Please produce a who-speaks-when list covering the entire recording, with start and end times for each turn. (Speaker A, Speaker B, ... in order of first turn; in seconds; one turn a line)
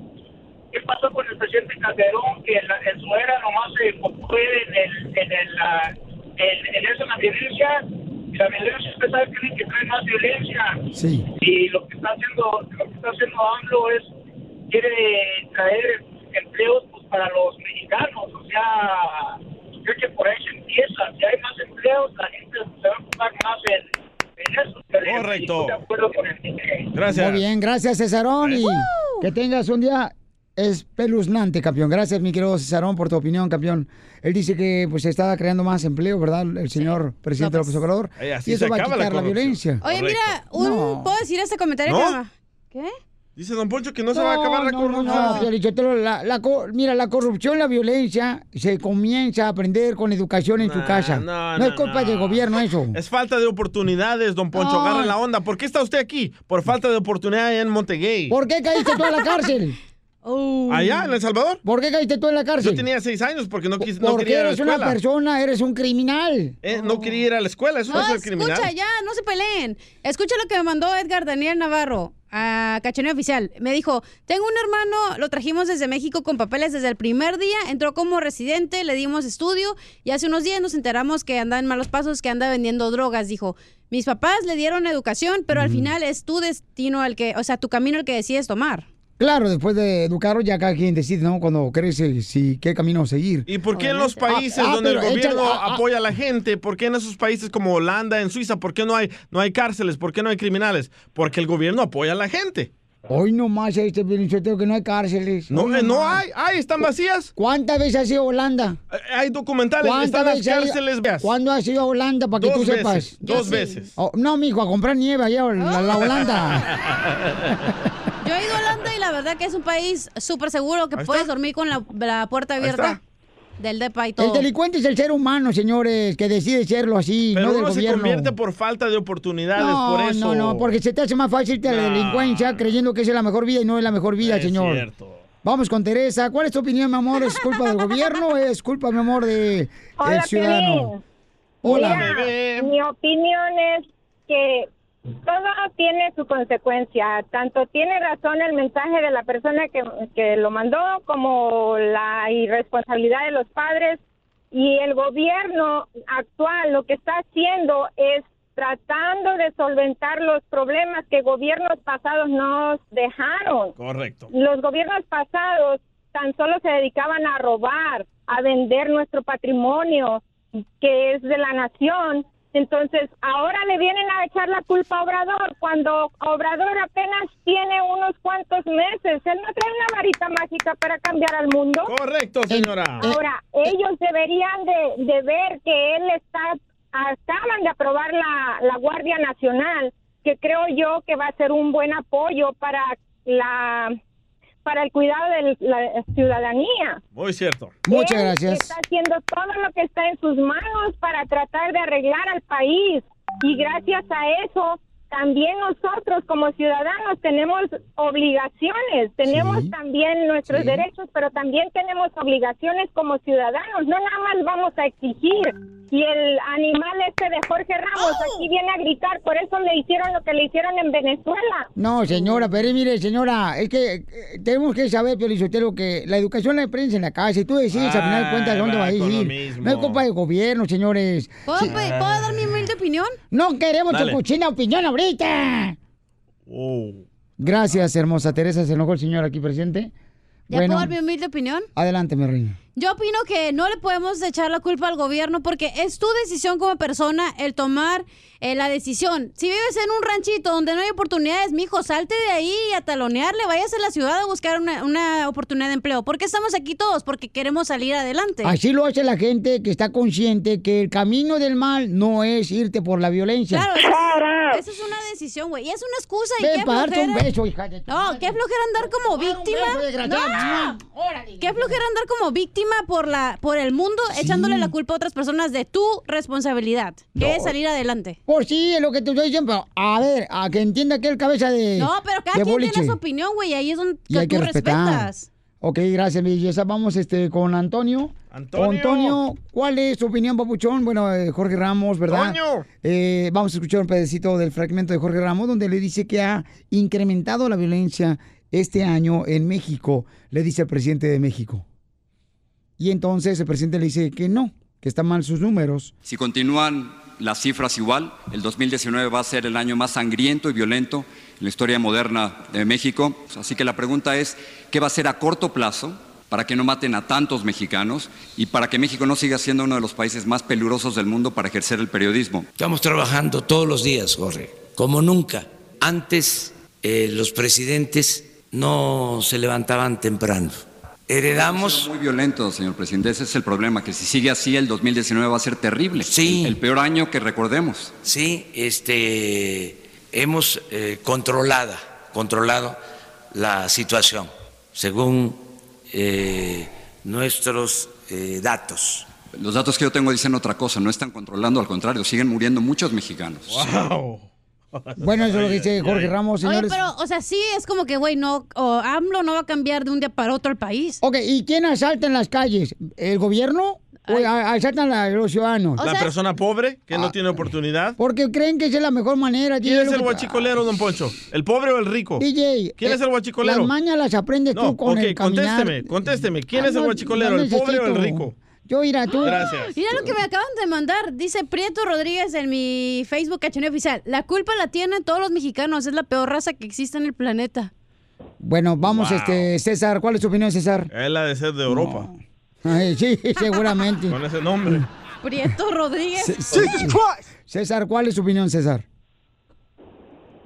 Speaker A: 0.7-10.8
Speaker B: 10.9-11.2
Speaker A: 11.4-14.1
Speaker A: 14.7-26.9
Speaker C: 25.0-25.8
Speaker C: 26.9-27.4
Speaker B: 27.1-39.8
Speaker D: 28.6-29.3
Speaker D: 36.8-37.8
Speaker C: 38.2-40.4
Speaker D: 39.8-42.9
Speaker B: 40.5-41.1
Speaker C: 41.9-42.2
Speaker C: 43.4-45.5
Speaker B: 44.1-53.0
Speaker D: 45.0-45.5
Speaker C: 50.6-58.3
Speaker D: 54.6-55.1
Speaker B: 58.3-59.8
Speaker D: 58.8-59.5
Speaker D: 60.2-61.1
Speaker C: 60.7-61.6
Speaker B: 61.6-62.8
Speaker C: 62.6-65.0
Speaker B: 63.8-66.6
Speaker C: 66.6-68.7
Speaker D: 67.9-88.8
Speaker B: 85.5-85.9
Speaker B: 89.2-93.5
Speaker C: 93.5-102.7
Speaker D: 93.7-94.2
Speaker B: 94.3-95.8
Speaker B: 103.1-106.2
Speaker C: 105.5-107.3
Speaker B: 107.3-108.8
Speaker C: 108.9-111.3
Speaker B: 109.8-116.7
Speaker C: 112.4-113.9
Speaker D: 113.2-113.9
Speaker D: 115.6-116.0
Speaker D: 118.2-123.0
Speaker C: 121.0-121.3
Speaker C: 122.6-123.0
Speaker D: 123.6-124.5
Speaker B: 124.2-128.3
Speaker C: 127.3-130.7
Speaker B: 129.6-134.8
Speaker C: 131.7-132.6
Speaker C: 134.2-135.2
Speaker B: 135.4-140.9
Speaker D: 137.3-138.0
Speaker E: 140.0-141.0
Speaker B: 141.6-142.1
Speaker C: 141.7-142.7
Speaker E: 141.7-144.7
Speaker E: 145.2-154.0
Speaker E: 154.5-163.7
Speaker C: 163.8-164.3
Speaker E: 164.3-170.2
Speaker E: 170.8-181.9
Speaker C: 181.8-183.1
Speaker B: 182.5-183.2
Speaker E: 183.0-193.9
Speaker E: 194.6-197.0
Speaker C: 197.1-197.8
Speaker B: 197.8-198.7
Speaker E: 197.9-221.7
Speaker B: 209.2-209.7
Speaker B: 210.5-210.8
Speaker D: 218.0-218.5
Speaker B: 221.8-231.7
Speaker C: 227.7-230.0
Speaker D: 231.5-233.2
Speaker C: 231.6-232.4
Speaker B: 233.3-235.8
Speaker C: 233.9-234.2
Speaker C: 236.5-237.0
Speaker B: 237.4-239.9
Speaker B: 240.5-240.9
Speaker D: 240.5-241.7
Speaker B: 241.8-242.6
Speaker D: 242.7-258.5
Speaker B: 258.4-263.7
Speaker D: 263.5-267.3
Speaker B: 266.4-271.8
Speaker D: 267.9-270.8
Speaker D: 271.4-278.2
Speaker B: 274.1-274.7
Speaker B: 277.1-277.5
Speaker B: 278.3-283.0
Speaker D: 281.8-285.3
Speaker B: 284.1-301.6
Speaker C: 288.3-289.2
Speaker C: 292.1-292.6
Speaker B: 302.8-305.9
Speaker F: 306.0-322.5
Speaker G: 322.6-331.9
Speaker F: 331.3-337.9
Speaker G: 336.0-336.6
Speaker G: 338.0-342.8
Speaker G: 343.3-349.1
Speaker F: 349.4-353.8
Speaker C: 353.5-356.1
Speaker B: 355.0-356.8
Speaker D: 356.4-361.0
Speaker B: 361.0-365.8
Speaker C: 365.8-368.0
Speaker D: 365.8-366.1
Speaker B: 368.0-370.4
Speaker C: 369.6-372.2
Speaker B: 372.2-375.9
Speaker C: 372.8-373.7
Speaker C: 374.5-378.3
Speaker B: 376.5-379.4
Speaker D: 379.1-387.7
Speaker C: 379.2-379.8
Speaker B: 388.4-390.9
Speaker C: 388.8-389.5
Speaker C: 390.9-392.1
Speaker B: 391.7-394.2
Speaker C: 394.1-394.9
Speaker D: 395.2-396.8
Speaker B: 396.2-398.8